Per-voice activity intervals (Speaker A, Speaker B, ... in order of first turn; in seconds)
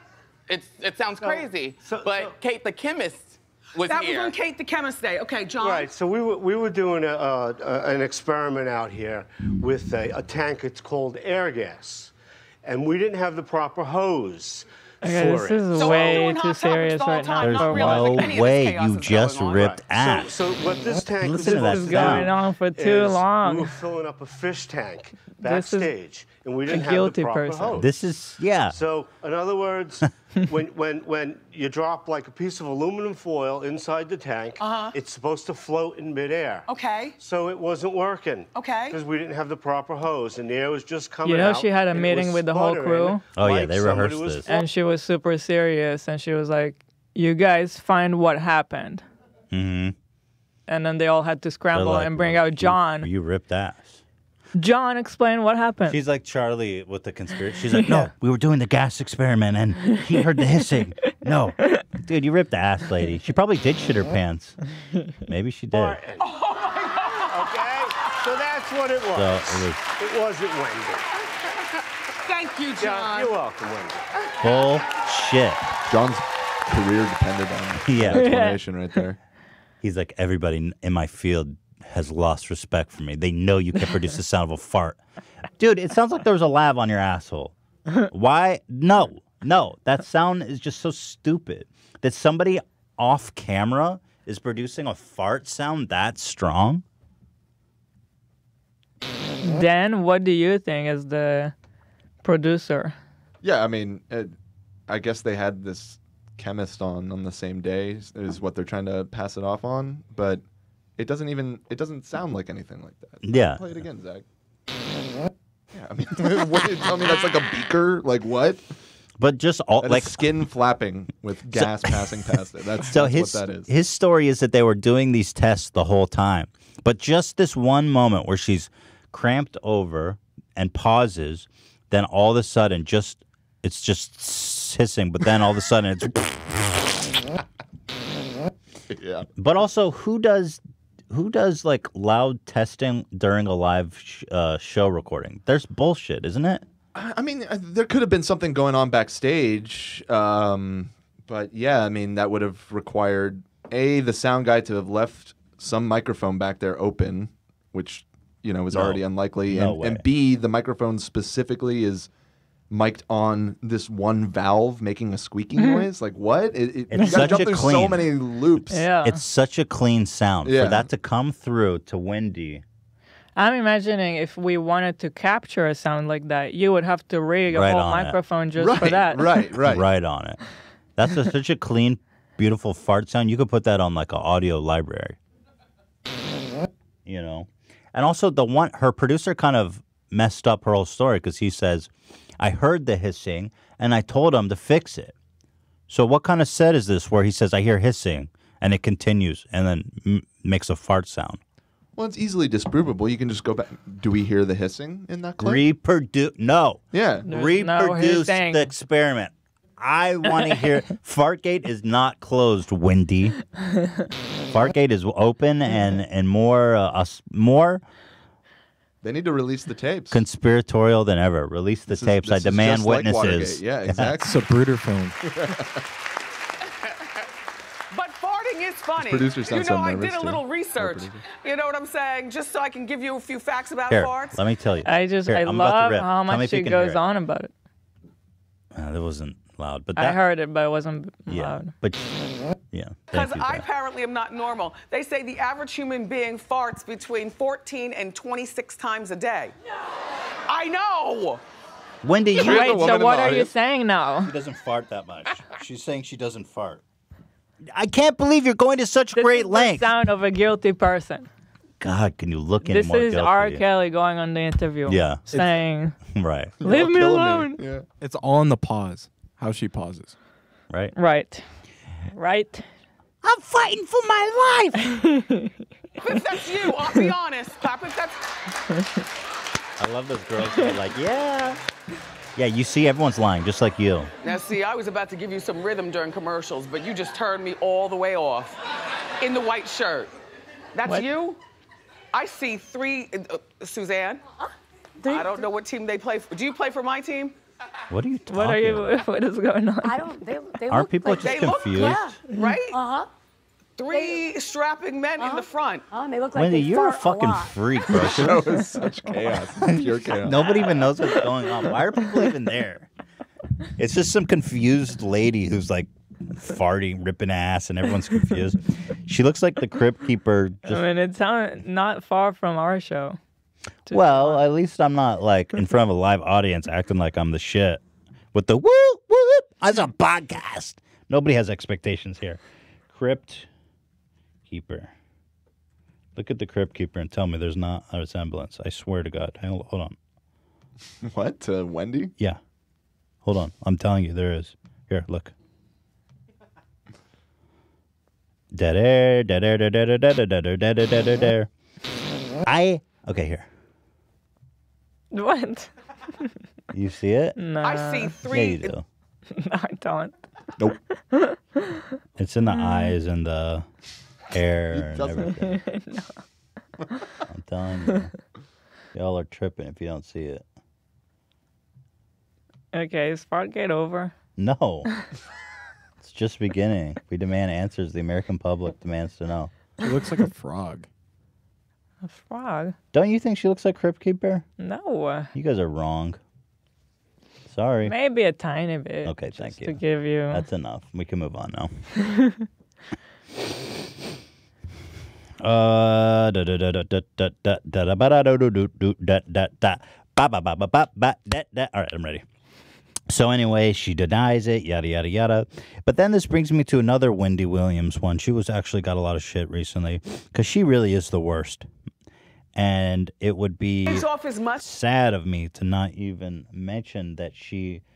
Speaker A: 0.5-4.3
Speaker B: 1.2-2.3, 5.6-12.1, 12.6-16.2, 20.0-27.9, 28.7-36.7, 37.2-44.6, 65.7-66.3, 67.2-71.1, 72.8-74.1
Speaker C: 3.8-5.9, 15.7-20.0, 34.6-35.0, 36.7-37.2, 38.5-39.0, 66.2-67.5, 72.2-73.3, 227.9-234.4, 243.1-249.5, 250.5-251.4, 276.0-278.3, 284.2-288.6, 289.2-290.1, 290.7-291.4, 292.1-294.2, 295.0-297.3, 301.1-302.8, 303.8-305.8, 357.6-358.7, 413.9-414.6
Speaker D: 15.0-18.3, 21.4-23.8, 25.4-25.9, 26.7-27.8, 41.2-43.2, 44.4-49.0, 50.7-53.1, 54.5-56.0, 57.7-58.1, 78.1-78.6, 99.4-101.5, 102.2-102.9, 165.6-165.8, 167.0-167.3, 168.7-169.2, 173.3-179.5, 207.3-208.6, 213.6-214.1, 234.8-237.5, 239.9-241.7, 252.4-254.3, 259.1-261.3, 262.6-266.0, 266.6-267.6, 270.9-271.4, 272.1-272.7, 274.8-275.6, 298.3-300.2, 320.6-323.2, 323.9-324.4, 355.1-355.7, 357.4-358.2, 359.3-360.1, 361.1-361.9, 362.5-362.9, 365.4-366.2, 372.7-374.1, 382.0-382.7, 384.6-385.3, 387.8-390.4, 392.0-392.4
Speaker E: 17.4-20.4, 21.2-22.3, 27.8-28.8, 43.4-44.5, 49.5-49.9, 51.7-54.0, 55.9-64.6, 65.3-66.0, 69.1-69.8, 74.4-75.7, 77.9-78.3, 79.8-85.0, 85.6-87.5, 88.1-96.8, 113.2-113.7, 119.2-120.3, 121.5-122.0, 122.8-137.0, 139.4-146.6, 158.7-160.0, 166.9-168.1, 169.0-172.6, 177.5-178.2, 179.7-180.4, 181.0-185.2, 187.1-195.1, 195.9-201.4, 205.4-213.4, 214.5-217.8, 220.1-224.2, 233.9-237.0, 238.7-240.2, 241.3-242.1, 242.7-243.6, 252.0-253.0, 254.2-256.8, 257.7-259.9, 261.8-263.6, 264.9-265.2, 266.1-266.6, 270.7-270.9, 273.2-274.9, 279.8-281.6, 282.4-284.1, 297.9-298.9, 300.7-302.2, 306.3-308.5, 310.2-312.9, 313.8-320.8, 323.9-327.8, 328.3-333.5, 334.5-334.9, 336.1-339.9, 343.2-345.3, 348.5-351.5, 352.4-353.5, 356.7-357.4, 358.3-358.8, 362.2-363.6, 364.3-365.6, 367.3-368.1, 368.9-370.4, 374.4-374.9, 376.0-379.5, 382.9-384.4, 385.3-386.2, 387.5-387.9, 389.0-389.8, 390.3-391.7, 395.4-402.2, 403.1-411.6, 412.5-414.1, 414.6-417.8
Speaker F: 75.9-79.2, 103.4-104.3, 104.9-110.4, 111.0-114.2, 115.7-118.6, 119.8-123.7, 138.9-139.2, 146.9-162.1, 162.7-168.9, 170.4-170.9, 178.6-179.8, 201.9-205.7, 206.9-207.3, 219.0-220.2, 221.9-224.3, 225.3-225.7, 229.0-231.2, 252.3-253.5, 266.6-267.8, 307.9-310.5, 341.0-342.1, 364.7-365.3
Speaker G: 224.2-225.2, 267.9-270.1, 379.8-380.9
Speaker H: 299.8-303.1, 303.9-304.2, 305.2-308.1